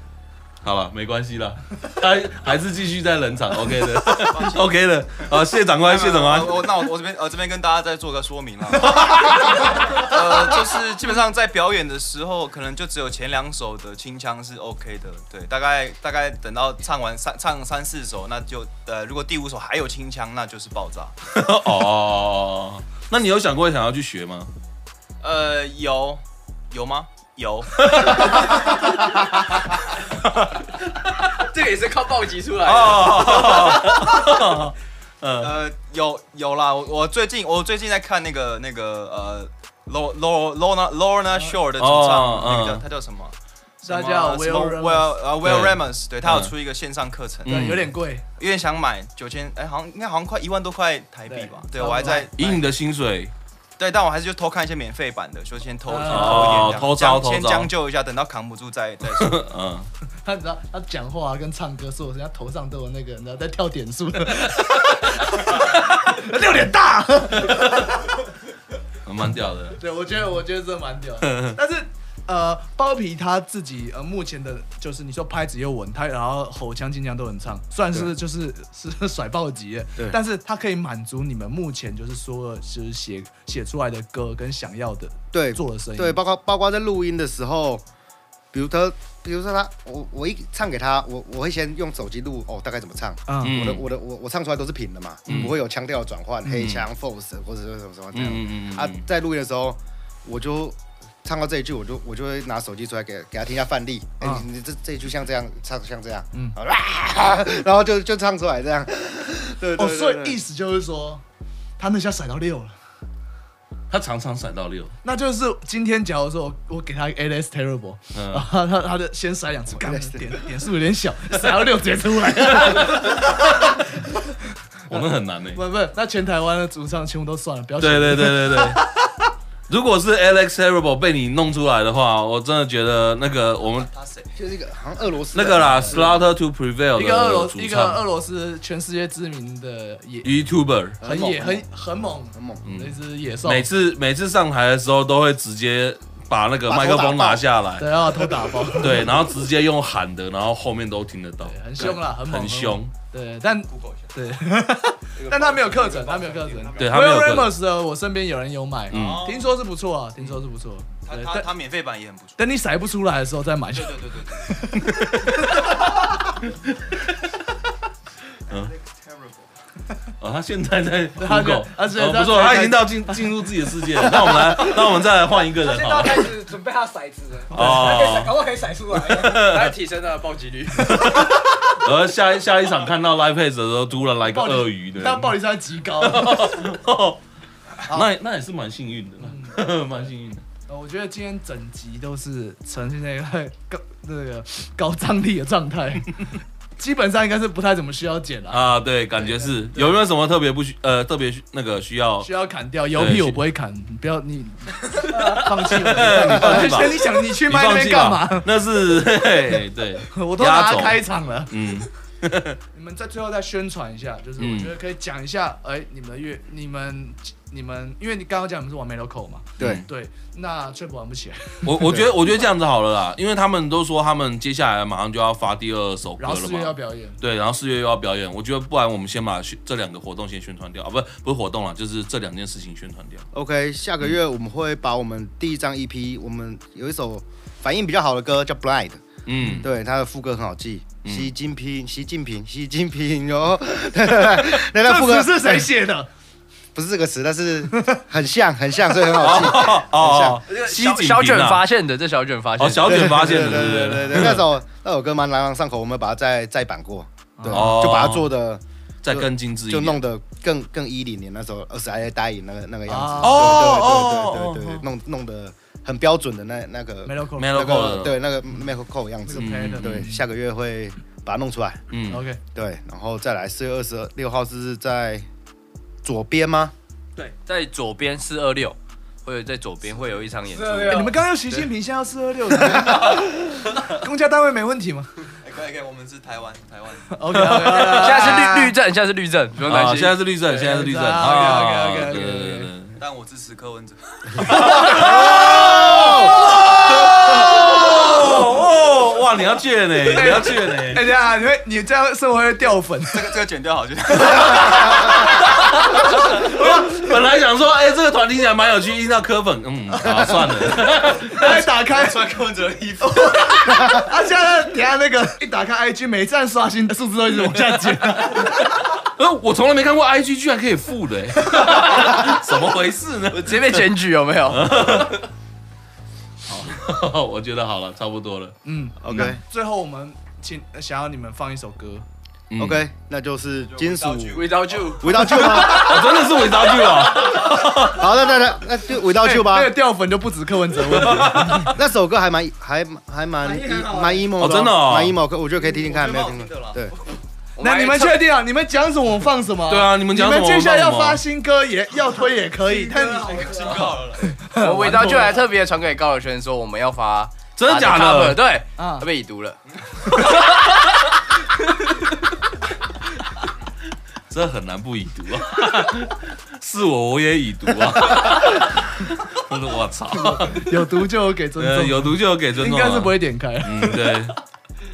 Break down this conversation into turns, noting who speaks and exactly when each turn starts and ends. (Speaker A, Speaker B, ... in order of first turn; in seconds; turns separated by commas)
Speaker A: 0.6-6.8, Speaker B: 4.3-4.7, Speaker B: 5.8-21.1, Speaker A: 21.3-24.5, Speaker B: 25.2-28.7, Speaker A: 27.8-28.4, Speaker C: 31.3-34.2, Speaker A: 32.6-35.6, Speaker B: 35.4-47.7, Speaker A: 41.8-42.8, Speaker D: 43.9-45.2, Speaker A: 45.4-46.5, Speaker A: 47.5-47.9, Speaker D: 47.5-48.3, Speaker B: 48.4-52.6, Speaker D: 51.3-52.3, Speaker A: 52.0-53.3, Speaker B: 53.8-59.4, Speaker D: 55.9-56.9, Speaker A: 56.1-57.7, Speaker A: 59.0-59.9, Speaker D: 60.2-68.1, Speaker A: 69.1-69.8, Speaker D: 69.8-86.2, Speaker A: 71.2-71.6, Speaker E: 85.3-87.8, Speaker E: 88.5-110.4, Speaker D: 93.3-93.5, Speaker A: 93.4-93.8, Speaker A: 95.3-95.6, Speaker A: 96.5-96.8, Speaker A: 98.1-99.0, Speaker D: 109.8-111.2, Speaker D: 111.8-112.8, Speaker A: 113.9-115.0, Speaker D: 115.0-124.4, Speaker A: 118.2-118.5, Speaker E: 119.7-120.4, Speaker A: 122.5-123.0, Speaker A: 124.9-125.6, Speaker D: 124.9-129.0, Speaker A: 127.8-128.8, Speaker A: 129.7-133.9, Speaker B: 133.7-134.3, Speaker E: 134.3-136.2, Speaker A: 135.3-138.0, Speaker D: 137.0-140.3, Speaker A: 140.2-141.0, Speaker E: 141.0-141.7, Speaker D: 141.0-143.7, Speaker E: 142.3-142.6, Speaker A: 142.7-148.0, Speaker E: 146.7-147.5, Speaker D: 147.8-149.1, Speaker A: 148.8-152.9, Speaker D: 151.5-161.5, Speaker B: 153.7-154.2, Speaker B: 155.2-156.9, Speaker A: 156.8-157.6, Speaker A: 158.9-159.3, Speaker B: 158.9-159.5, Speaker B: 161.0-162.4, Speaker D: 162.4-165.7, Speaker B: 163.7-164.5, Speaker A: 164.8-165.5, Speaker B: 168.5-169.5, Speaker A: 170.2-176.3, Speaker D: 171.2-174.9, Speaker F: 175.6-179.5, Speaker A: 177.5-178.3, Speaker D: 177.5-178.0, Speaker A: 178.9-179.8, Speaker C: 179.4-181.3, Speaker A: 180.8-185.4, Speaker D: 184.3-186.7, Speaker A: 186.0-187.2, Speaker A: 187.9-190.4, Speaker D: 189.2-189.6, Speaker D: 190.7-200.0, Speaker A: 198.5-202.3, Speaker D: 202.2-208.5, Speaker A: 202.9-203.4, Speaker A: 205.1-212.6, Speaker D: 210.1-211.7, Speaker D: 212.7-222.0, Speaker A: 214.4-214.7, Speaker E: 219.6-219.8, Speaker A: 219.6-219.9, Speaker A: 221.7-233.3, Speaker D: 226.2-227.2, Speaker E: 233.3-239.0, Speaker A: 239.3-239.7, Speaker E: 239.6-245.7, Speaker A: 241.0-241.3, Speaker D: 244.3-246.1, Speaker E: 246.8-250.4, Speaker A: 249.2-251.7, Speaker C: 250.5-253.1, Speaker A: 252.6-254.5, Speaker E: 252.8-271.8, Speaker D: 257.4-257.9, Speaker A: 257.5-258.3, Speaker A: 259.0-260.0, Speaker D: 262.9-263.8, Speaker A: 263.2-264.9, Speaker D: 267.1-268.0, Speaker A: 267.4-268.2, Speaker D: 269.3-270.2, Speaker A: 269.3-269.9, Speaker A: 271.9-272.3, Speaker D: 272.1-272.4, Speaker E: 272.5-275.3, Speaker E: 276.0-276.7, Speaker C: 277.5-281.7, Speaker F: 280.5-281.1, Speaker D: 280.9-285.1, Speaker B: 285.4-287.3, Speaker D: 287.1-288.7, Speaker A: 287.3-288.4, Speaker C: 287.6-290.2, Speaker A: 289.6-293.0, Speaker D: 290.5-292.7, Speaker B: 293.0-296.4, Speaker A: 294.4-301.0, Speaker D: 300.1-303.4, Speaker B: 303.1-305.4, Speaker A: 305.0-305.7, Speaker D: 306.4-306.9, Speaker A: 306.4-311.5, Speaker D: 310.1-310.3, Speaker D: 311.3-312.3, Speaker B: 311.3-313.6, Speaker D: 313.0-318.7, Speaker A: 318.2-323.9, Speaker C: 323.3-325.2, Speaker A: 324.5-325.2, Speaker A: 326.5-328.6, Speaker D: 328.6-332.1, Speaker E: 329.0-329.4, Speaker A: 329.1-329.4, Speaker A: 332.5-332.8, Speaker E: 332.6-336.1, Speaker B: 333.6-335.0, Speaker C: 334.3-335.9, Speaker A: 335.6-338.1, Speaker E: 337.3-339.8, Speaker D: 339.1-341.7, Speaker A: 341.0-341.4, Speaker E: 341.7-346.9, Speaker F: 343.4-344.3, Speaker A: 344.4-345.2, Speaker B: 345.6-347.1, Speaker C: 347.6-348.2, Speaker D: 347.6-355.4, Speaker A: 349.7-351.2, Speaker B: 352.6-354.4, Speaker F: 353.1-353.6, Speaker C: 354.6-359.6, Speaker A: 357.6-358.4, Speaker D: 358.8-359.1, Speaker C: 360.2-360.5, Speaker A: 364.3-370.9, Speaker D: 370.2-374.3, Speaker A: 371.6-374.4